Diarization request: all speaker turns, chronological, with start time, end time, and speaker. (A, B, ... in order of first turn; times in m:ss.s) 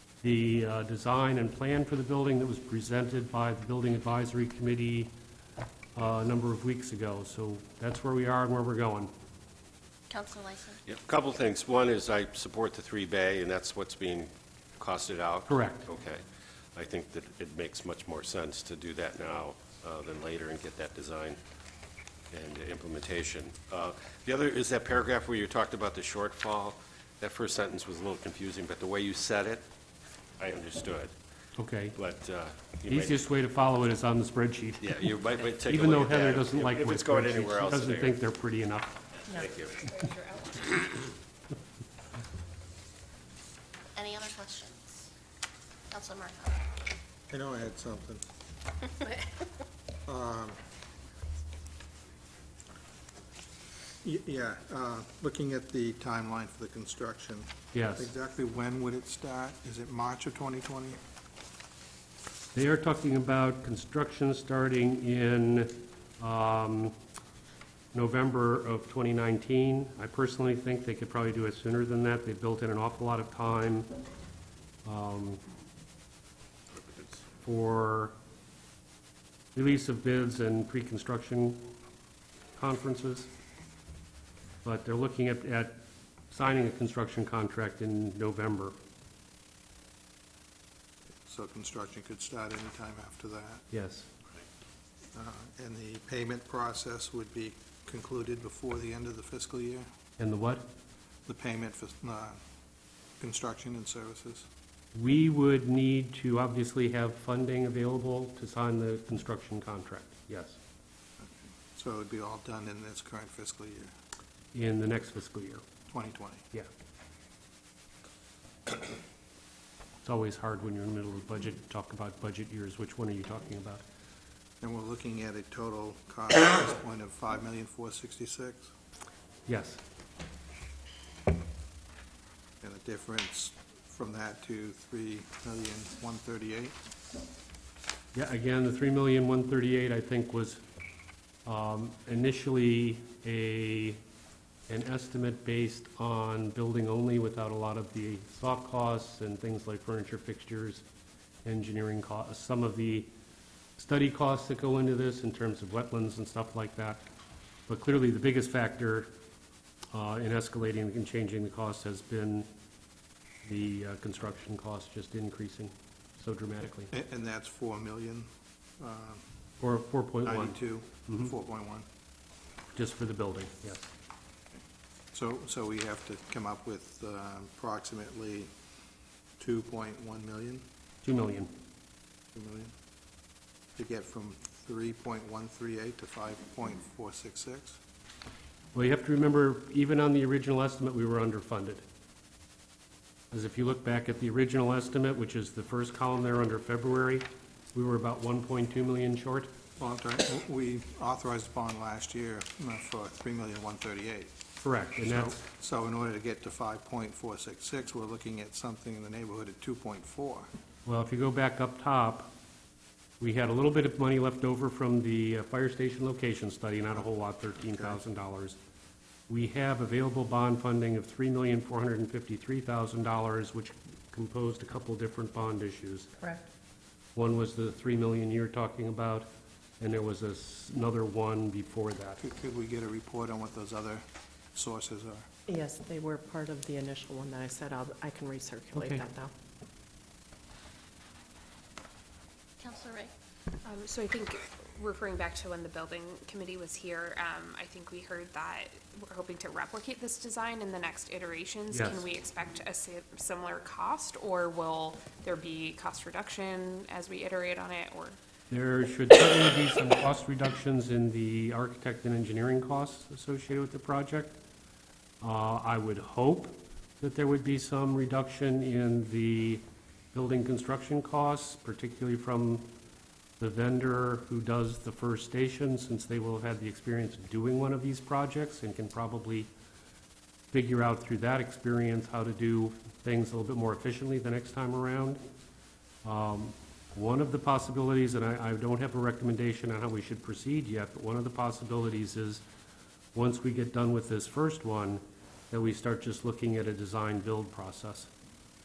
0:00.2-0:05.1 A
0:06.0-0:09.1 A
0:10.1-0:10.8 B
0:10.8-0:16.2 C
0:15.5-0:15.9 A
0:16.8-0:21.4 C
0:22.3-0:29.6 C
0:30.4-0:31.1 C
0:31.6-0:32.0 A
0:32.0-0:33.2 C
0:32.9-0:39.0 A
0:34.8-0:38.2 C
0:39.3-0:39.8 C
0:39.8-0:40.8 D
0:44.0-0:44.9 B
0:45.9-0:46.6 B
0:47.3-0:48.3 E
0:50.1-0:50.6 E
0:54.0-1:01.0 E
0:57.7-0:58.1 A
1:02.5-1:07.0 A
1:07.9-1:13.9 A
1:14.8-1:15.4 A
1:17.4-1:18.1 A
1:19.6-1:21.7 A
1:22.6-1:23.3 A
1:24.6-1:28.8 A
1:31.2-1:33.6 E
1:33.7-1:34.1 A
1:35.1-1:39.9 E
1:40.2-1:40.7 A
1:41.3-1:42.4 E
1:43.2-1:44.5 E
1:44.9-1:50.6 A
1:51.2-1:53.9 E
1:54.5-1:55.6 A
1:55.9-1:56.4 E
2:00.0-2:03.8 A
2:04.6-2:08.7 E
2:09.5-2:09.8 A
2:12.6-2:16.8 E
2:18.1-2:20.6 A
2:21.5-2:24.0 A
2:24.7-2:30.8 A
2:31.4-2:33.1 A
2:33.8-2:37.0 A
2:37.7-2:39.1 A
2:39.9-2:42.5 A
2:43.4-2:46.9 A
2:46.9-2:48.3 E
2:48.8-2:49.2 E
2:49.6-2:51.3 A
2:50.2-2:51.9 E
2:52.8-2:53.9 A
2:55.1-2:58.5 E
2:59.4-3:00.6 E
3:01.0-3:01.5 A
3:02.4-3:02.7 E
3:03.8-3:07.8 E
3:08.7-3:11.8 A
3:13.3-3:19.5 A
3:19.8-3:24.3 E
3:24.6-3:25.4 A
3:25.0-3:30.5 E
3:30.9-3:32.3 A
3:33.2-3:38.6 A
3:37.7-3:38.0 E
3:39.3-3:46.1 A
3:47.2-3:49.3 A
3:49.8-3:52.2 A
3:52.2-3:55.3 E
3:55.5-3:59.3 F
4:02.6-4:03.1 B
4:03.6-4:18.2 D
4:11.7-4:12.0 A
4:18.5-4:24.4 A
4:25.2-4:32.7 A
4:33.4-4:39.5 A
4:40.5-4:45.2 A
4:46.0-4:52.4 A
4:53.1-4:58.1 A